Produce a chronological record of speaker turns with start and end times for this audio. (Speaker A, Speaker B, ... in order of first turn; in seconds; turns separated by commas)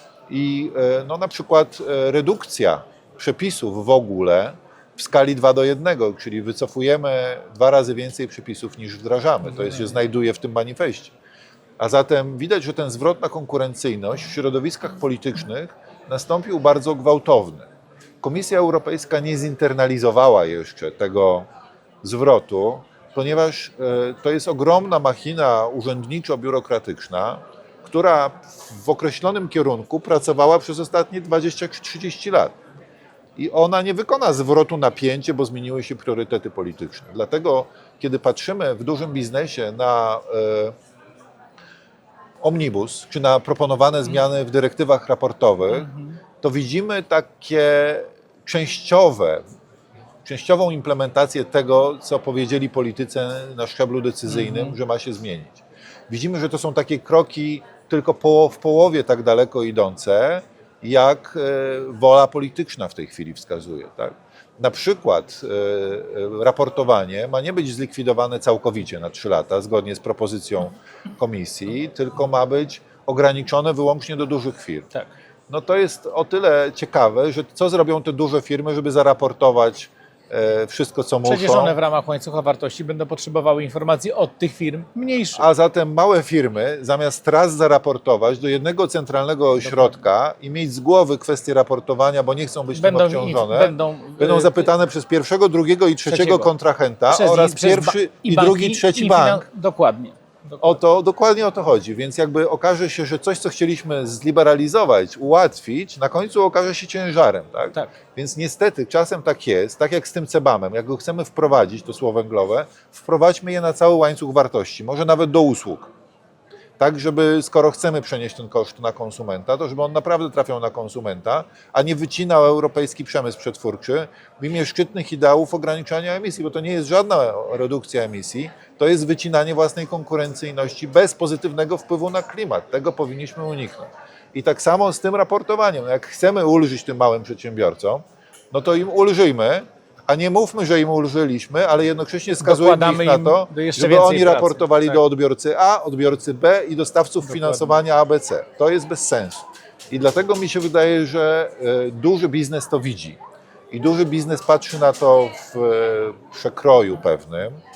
Speaker A: 0.3-11.1, Speaker A: 11.8-17.7, Speaker A: 18.2-21.4, Speaker A: 22.0-32.5, Speaker A: 33.4-40.7, Speaker A: 42.4-49.4, Speaker B: 45.7-46.2, Speaker A: 50.2-74.9, Speaker B: 54.3-54.8, Speaker A: 75.5-81.8, Speaker B: 81.2-85.4, Speaker A: 85.3-99.4, Speaker B: 89.6-90.0, Speaker B: 92.7-94.7, Speaker B: 96.1-96.5, Speaker B: 97.1-100.8, Speaker A: 100.6-115.9, Speaker A: 116.8-153.2, Speaker B: 142.4-145.0, Speaker B: 147.2-147.8, Speaker A: 153.7-157.6